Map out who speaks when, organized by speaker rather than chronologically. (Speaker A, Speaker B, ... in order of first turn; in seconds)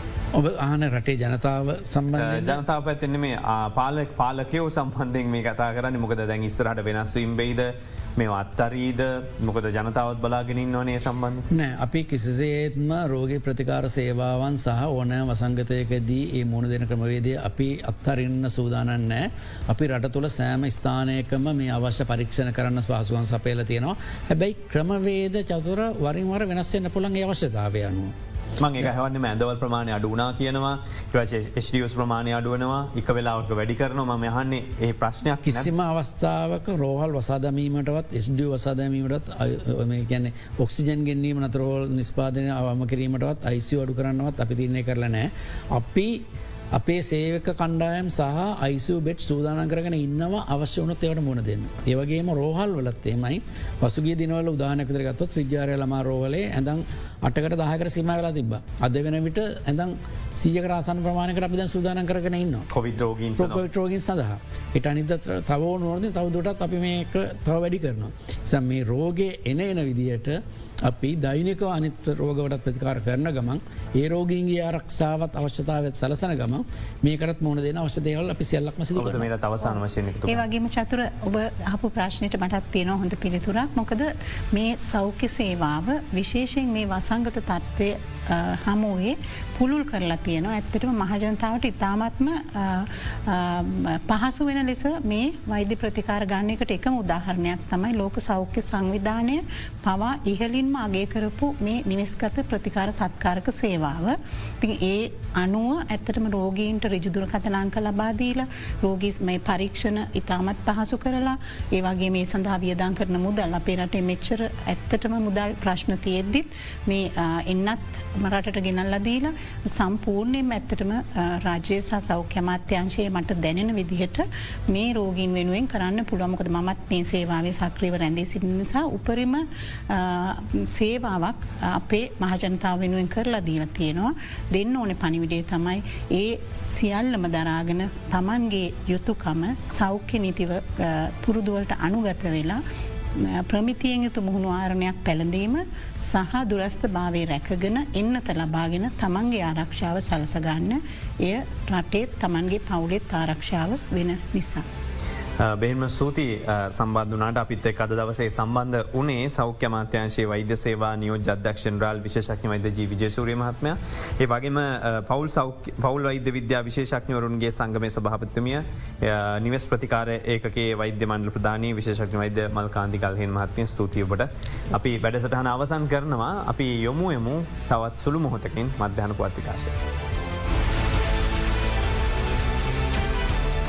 Speaker A: 0.3-2.6, 11.5-28.1, 35.5-62.7, 63.4-79.3
Speaker B: 2.1-11.4, 28.6-35.7, 62.7-63.6, 78.9-80.4, 155.4-179.8
Speaker C: 80.3-142.6, 143.2-154.6